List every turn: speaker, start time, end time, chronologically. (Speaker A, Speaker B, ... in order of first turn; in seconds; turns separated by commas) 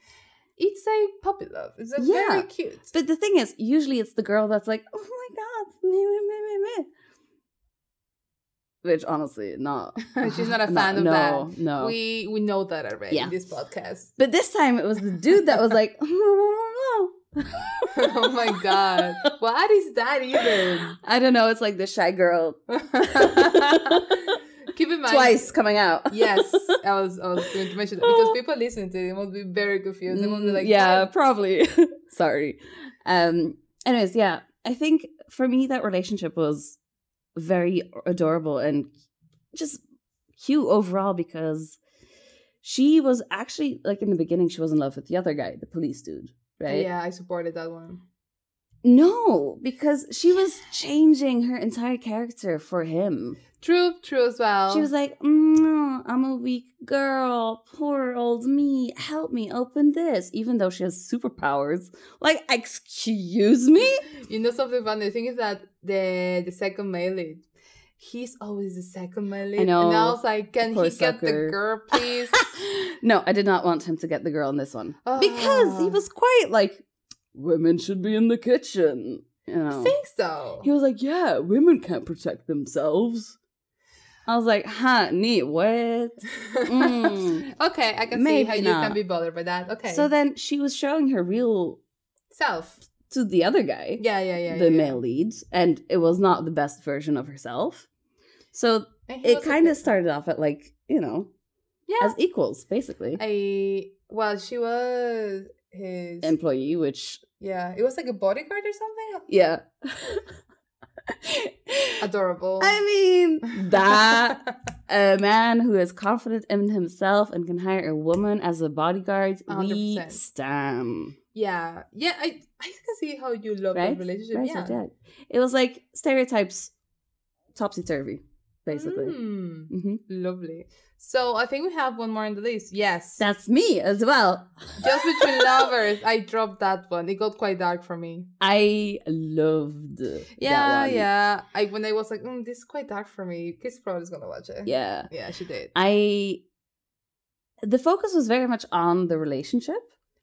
Speaker A: 0.6-2.9, Speaker B: 2.0-6.9, Speaker B: 8.8-12.0, Speaker A: 10.1-14.1, Speaker B: 14.2-17.9, Speaker A: 17.9-21.0, Speaker B: 18.8-19.2, Speaker B: 20.4-24.3, Speaker A: 22.7-25.6, Speaker B: 25.1-26.7, Speaker A: 26.1-31.1, Speaker B: 28.0-28.4, Speaker B: 30.1-36.8, Speaker B: 37.4-38.9, Speaker B: 39.5-39.8, Speaker B: 40.4-41.8, Speaker B: 42.6-46.9, Speaker A: 46.7-48.0, Speaker B: 48.8-53.4, Speaker A: 53.6-54.9, Speaker B: 54.7-64.0, Speaker A: 64.2-67.5, Speaker A: 68.0-72.5, Speaker B: 69.6-79.9, Speaker A: 75.0-76.0, Speaker A: 79.7-80.7, Speaker B: 80.6-83.4, Speaker B: 84.3-87.5, Speaker A: 86.5-90.1, Speaker B: 88.1-89.0, Speaker B: 89.9-91.8, Speaker A: 92.3-92.8, Speaker B: 93.1-97.9, Speaker A: 94.0-95.0, Speaker B: 98.5-101.3, Speaker A: 99.1-99.9, Speaker A: 101.9-102.2, Speaker B: 102.0-103.2, Speaker A: 103.2-106.3, Speaker B: 106.2-107.2, Speaker A: 107.4-109.3, Speaker B: 109.3-110.3, Speaker B: 111.1-112.0, Speaker A: 112.0-112.8, Speaker B: 112.6-121.2, Speaker A: 113.5-114.3, Speaker A: 119.5-120.2, Speaker A: 121.3-124.8, Speaker B: 123.8-126.7, Speaker B: 127.5-129.2, Speaker A: 128.7-133.2, Speaker B: 129.7-130.0, Speaker B: 133.2-135.7, Speaker A: 134.8-138.3, Speaker B: 138.4-141.1, Speaker A: 140.4-145.7, Speaker B: 144.7-145.1, Speaker B: 145.7-146.4, Speaker B: 147.6-149.9